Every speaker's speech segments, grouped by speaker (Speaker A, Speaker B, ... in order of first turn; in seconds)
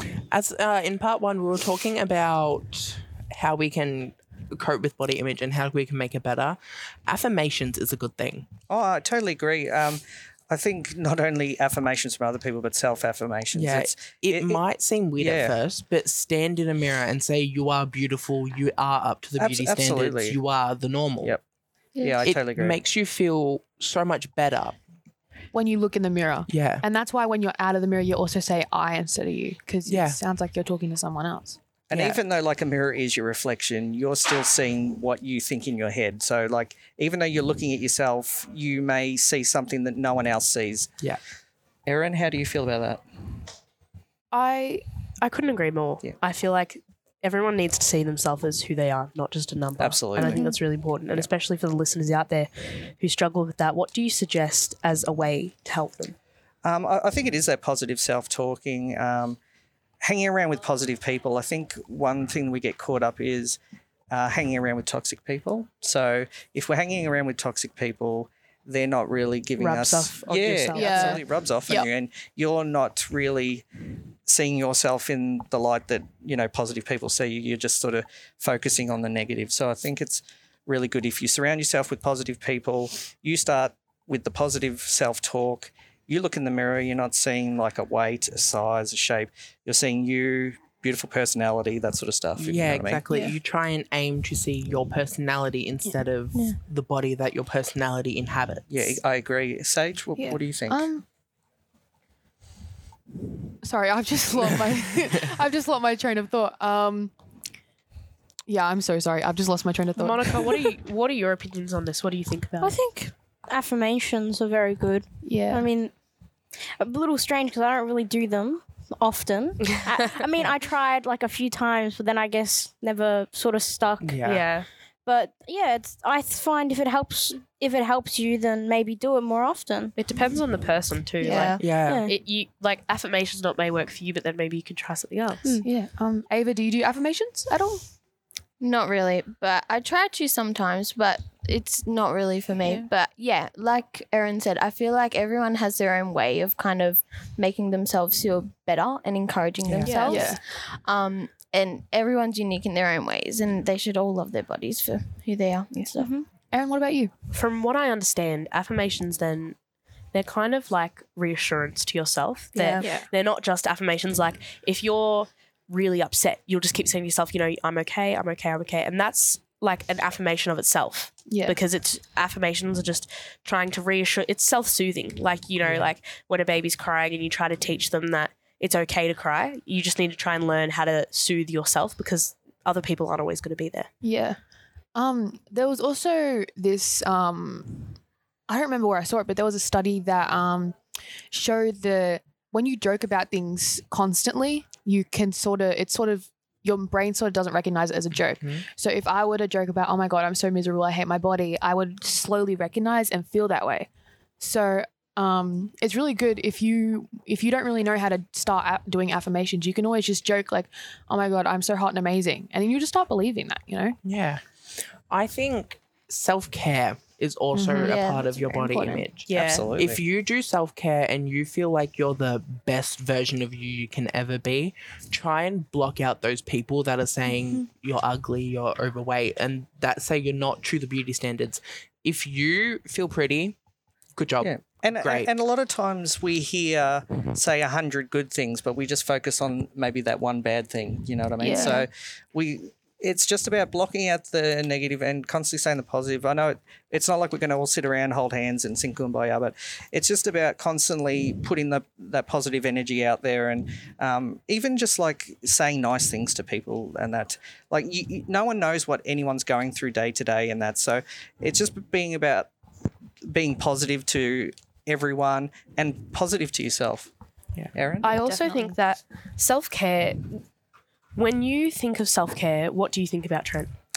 Speaker A: 0.3-8.5, 13.5-21.4, 22.2-24.8, 26.5-26.8, 29.9-30.2, 31.9-32.2, 92.3-99.0, 124.0-124.4, 131.6-132.1, 149.6-150.0, 214.0-233.6, 234.2-235.3
Speaker B: 8.7-14.6, 15.2-15.6, 19.4-20.4, 22.0-22.8, 31.9-40.9, 41.9-43.0, 49.8-50.5, 56.6-59.4, 60.0-63.6, 64.1-73.6, 74.2-93.0, 98.7-100.9, 219.3-220.0, 234.4-262.5, 263.2-267.1, 267.7-268.3
Speaker C: 21.9-22.3, 131.2-131.6, 138.6-156.1, 162.6-162.9, 217.8-218.9
Speaker D: 25.5-31.6, 44.3-44.8, 70.7-71.9, 100.2-101.0, 103.6-107.1, 108.5-110.7, 115.2-115.7, 131.2-131.5, 135.6-137.8, 150.1-150.4, 156.5-157.1, 171.3-171.6, 184.0-184.4, 184.9-187.9, 188.5-190.8, 191.3-203.9, 204.4-214.0, 217.5-219.0, 241.4-241.9, 268.2-268.7
Speaker E: 45.2-56.1, 69.6-71.2, 110.0-112.8, 124.2-124.7, 130.0-135.6, 149.8-150.3, 157.3-159.6, 160.1-183.9, 219.3-219.7, 268.0-270.4, 271.1-273.7
Speaker F: 112.6-115.9, 116.8-124.3, 125.0-129.9, 131.8-132.1, 155.9-156.2